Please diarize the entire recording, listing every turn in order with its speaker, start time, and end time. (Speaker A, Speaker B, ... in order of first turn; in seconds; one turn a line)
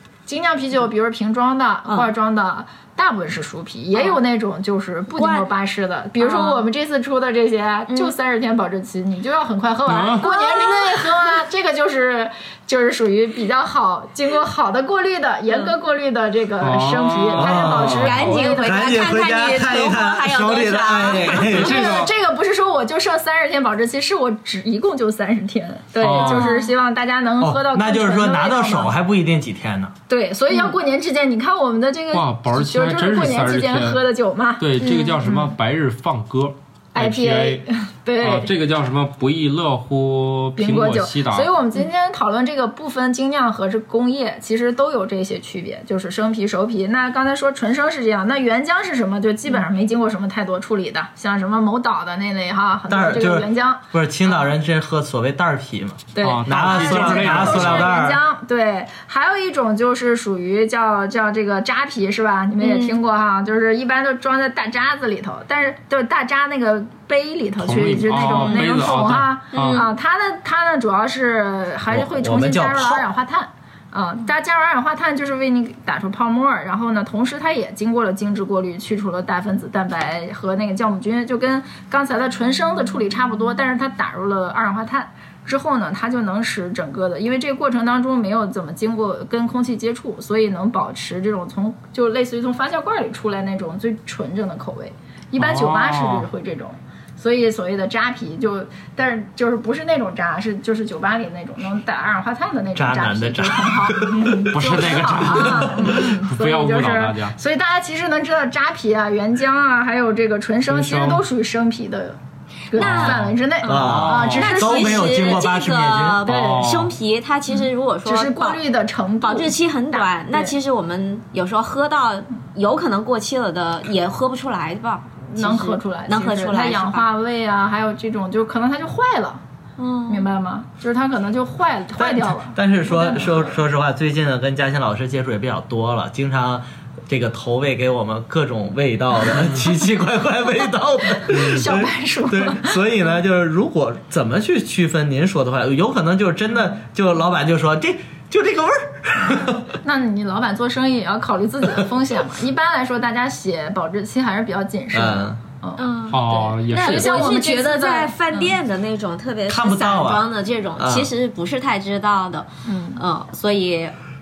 Speaker A: 0.3-19.0
Speaker B: 1.9-2.1
Speaker B: 3.9-4.2
Speaker B: 5.1-5.5
Speaker B: 6.2-6.7
Speaker C: 9.9-10.3
Speaker B: 10.2-11.3
Speaker C: 16.6-18.4
Speaker D: 17.4-21.9
Speaker B: 17.7-21.6
Speaker A: 21.3-28.9
Speaker C: 21.5-22.1
Speaker C: 26.0-26.5
Speaker B: 26.2-26.7
Speaker D: 27.4-29.9
Speaker A: 30.1-35.5
Speaker B: 30.5-30.8
Speaker C: 32.1-34.0
Speaker C: 34.6-37.6
Speaker B: 35.0-35.3
Speaker A: 37.0-38.5
Speaker C: 38.2-41.5
Speaker A: 40.6-54.5
Speaker D: 52.9-58.2
Speaker A: 56.1-112.2
Speaker C: 56.2-57.9
Speaker B: 62.6-63.0
Speaker C: 67.6-69.8
Speaker B: 68.1-68.8
Speaker B: 69.5-69.9
Speaker D: 71.9-73.0
Speaker C: 95.4-96.3
Speaker D: 102.8-105.7
Speaker C: 104.5-107.3
Speaker C: 110.7-111.2
Speaker A: 112.7-115.0
Speaker B: 112.7-113.3
Speaker C: 112.8-114.5
Speaker D: 113.7-116.2
Speaker B: 114.2-118.6
Speaker C: 116.2-116.9
Speaker A: 116.3-116.6
Speaker A: 118.0-120.5
Speaker B: 119.2-127.1
Speaker A: 125.3-129.4
Speaker B: 129.8-130.3
Speaker A: 130.1-133.6
Speaker D: 131.9-149.6
Speaker A: 141.3-142.8
Speaker C: 141.3-141.7
Speaker A: 149.8-158.5
Speaker D: 154.9-155.4
Speaker B: 155.8-163.9
Speaker C: 156.1-157.3
Speaker D: 159.5-161.1
Speaker A: 162.6-163.0